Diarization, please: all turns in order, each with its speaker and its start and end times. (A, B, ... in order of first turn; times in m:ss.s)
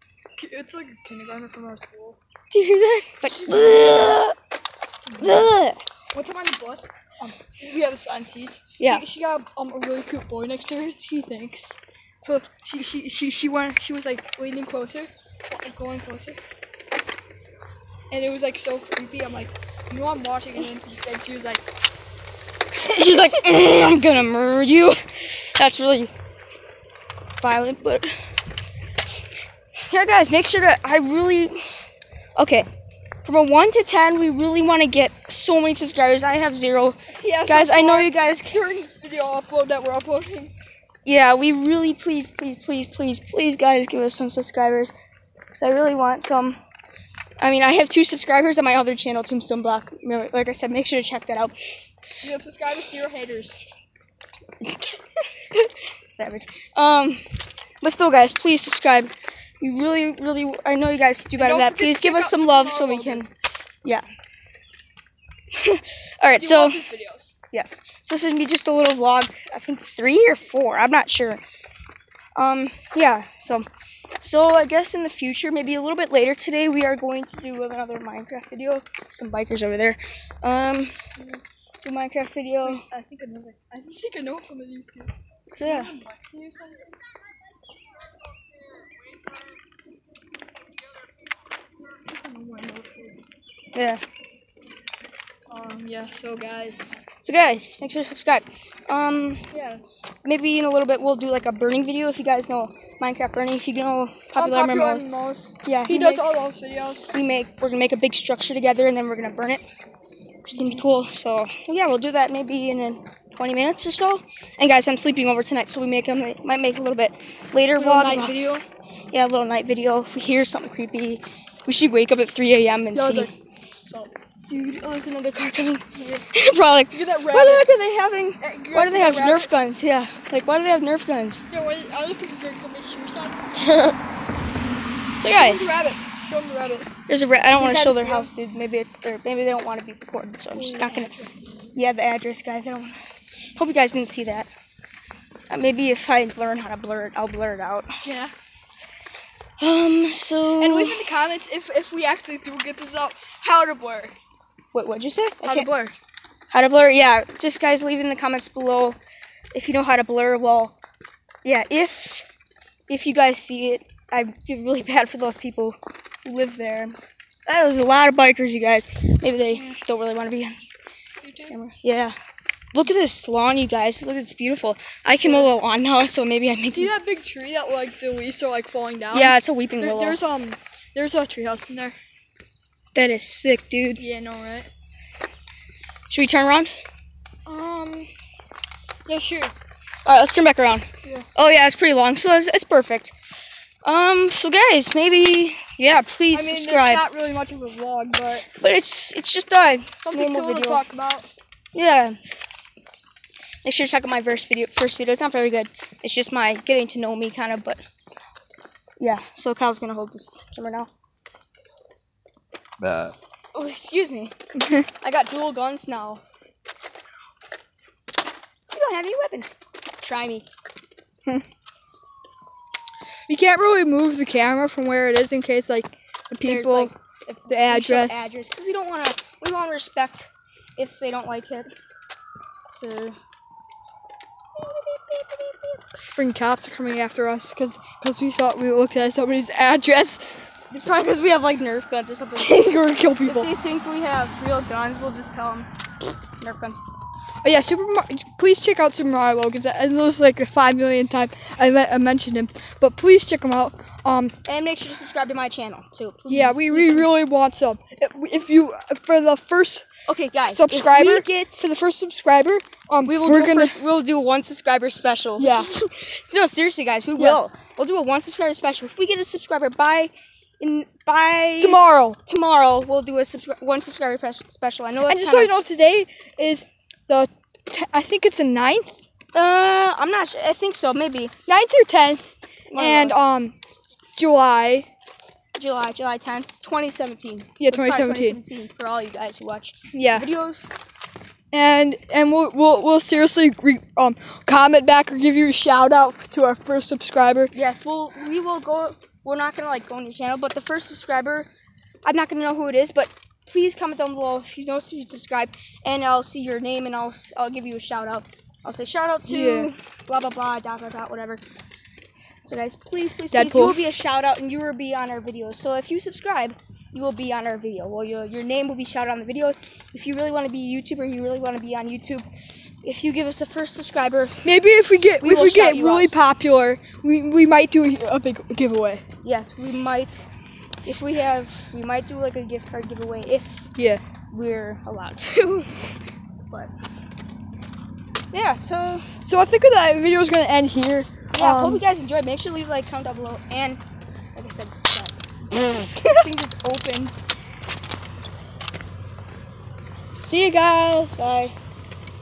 0:00.3-0:02.2 A
0:02.5-0:04.3 B
0:03.2-0:04.2 A
0:05.1-0:05.4 A
0:05.2-0:05.8 B
0:06.1-0:16.4 A
0:08.8-0:09.0 B
0:18.1-0:21.6 A
0:22.8-0:26.1 B
0:27.4-0:28.1 B
0:29.9-0:31.6 B
0:32.4-0:32.7 B
0:33.2-0:38.6 B
0:37.2-0:40.5 A
0:41.0-0:44.9 B
0:45.5-0:46.6 B
0:47.4-0:51.5 B
0:52.2-0:53.6 A
0:55.5-0:57.2 B
0:57.8-1:03.3 B
1:01.4-1:03.3 A
1:05.5-1:06.8 B
1:06.4-1:07.3 A
1:07.5-1:11.4 B
1:12.4-1:13.7 B
1:14.2-1:21.0 B
1:21.2-1:21.4 A
1:21.8-1:22.8 B
1:22.6-1:27.0 A
1:25.6-1:25.9 B
1:28.0-1:29.5 A
1:31.8-1:33.2 A
1:33.7-1:34.0 B
1:35.5-1:37.0 A
1:37.2-1:39.4 B
1:39.5-1:39.8 A
1:40.2-1:45.0 B
1:44.3-1:47.1 A
1:45.6-1:46.4 B
1:47.1-1:49.6 B
1:50.4-1:58.4 B
1:50.5-1:50.8 A
1:57.8-1:58.6 A
1:59.1-2:03.3 B
2:02.9-2:04.1 A
2:04.4-2:11.4 B
2:05.9-2:06.2 A
2:06.9-2:07.7 A
2:08.4-2:09.5 A
2:11.5-2:13.5 A
2:13.6-2:14.0 B
2:15.2-2:15.7 B
2:15.2-2:16.9 A
2:17.1-2:21.1 B
2:17.5-2:18.3 A
2:20.5-2:21.6 A
2:21.7-2:22.9 B
2:23.6-2:24.5 B
2:25.5-2:27.9 B
2:28.0-2:28.3 A
2:29.6-2:31.1 B
2:30.6-2:34.1 A
2:34.7-2:35.7 B
2:35.4-2:35.9 A
2:36.5-2:39.0 B
2:39.5-2:40.7 B
2:41.4-2:42.2 B
2:42.9-2:50.6 B
2:51.2-2:51.5 A
2:51.5-2:52.2 B
2:52.7-2:56.9 B
2:55.2-2:55.5 A
2:56.7-3:02.0 A
2:59.1-3:00.2 B
3:02.9-3:04.0 B
3:04.0-3:04.7 A
3:06.1-3:06.7 B
3:07.4-3:08.1 A
3:09.1-3:09.5 A
3:10.0-3:13.1 B
3:13.8-3:17.1 B
3:16.3-3:18.5 A
3:18.6-3:20.8 B
3:20.0-3:21.3 A
3:21.7-3:22.2 B
3:23.6-3:27.8 B
3:29.0-3:30.9 B
3:33.5-3:34.3 B
3:35.0-3:36.2 B
3:38.7-3:40.5 B
3:43.3-3:46.9 A
3:46.4-3:51.7 B
3:47.5-3:48.3 A
3:52.7-3:53.2 B
3:54.6-3:55.8 B
3:56.1-4:00.4 A
4:00.7-4:05.7 B
4:02.4-4:03.5 A
4:06.4-4:06.8 B
4:07.4-4:14.3 A
4:14.4-4:17.1 B
4:16.3-4:19.8 A
4:20.1-4:21.6 B
4:20.4-4:23.8 A
4:23.0-4:35.5 B
4:25.4-4:25.7 A
4:31.6-4:32.2 A
4:35.0-4:38.9 A
4:39.3-4:41.3 B
4:41.5-4:42.2 A
4:42.7-4:43.2 B
4:42.8-4:43.6 A
4:44.2-4:44.9 A
4:45.5-4:50.7 B
4:47.6-4:48.4 A
4:49.9-4:50.3 A
4:51.5-4:57.5 A
4:57.5-5:01.5 B
5:02.0-5:11.4 B
5:09.2-5:09.7 A
5:12.4-5:22.3 B
5:13.3-5:13.8 A
5:22.8-5:24.4 B
5:24.4-5:29.0 A
5:25.2-5:26.2 B
5:29.2-5:30.3 B
5:30.8-5:33.6 B
5:33.8-5:34.0 A
5:34.3-5:35.9 B
5:38.3-5:39.1 B
5:39.2-5:41.8 A
5:41.3-5:43.8 B
5:44.3-5:47.1 B
5:50.2-5:51.1 A
5:51.1-5:51.5 B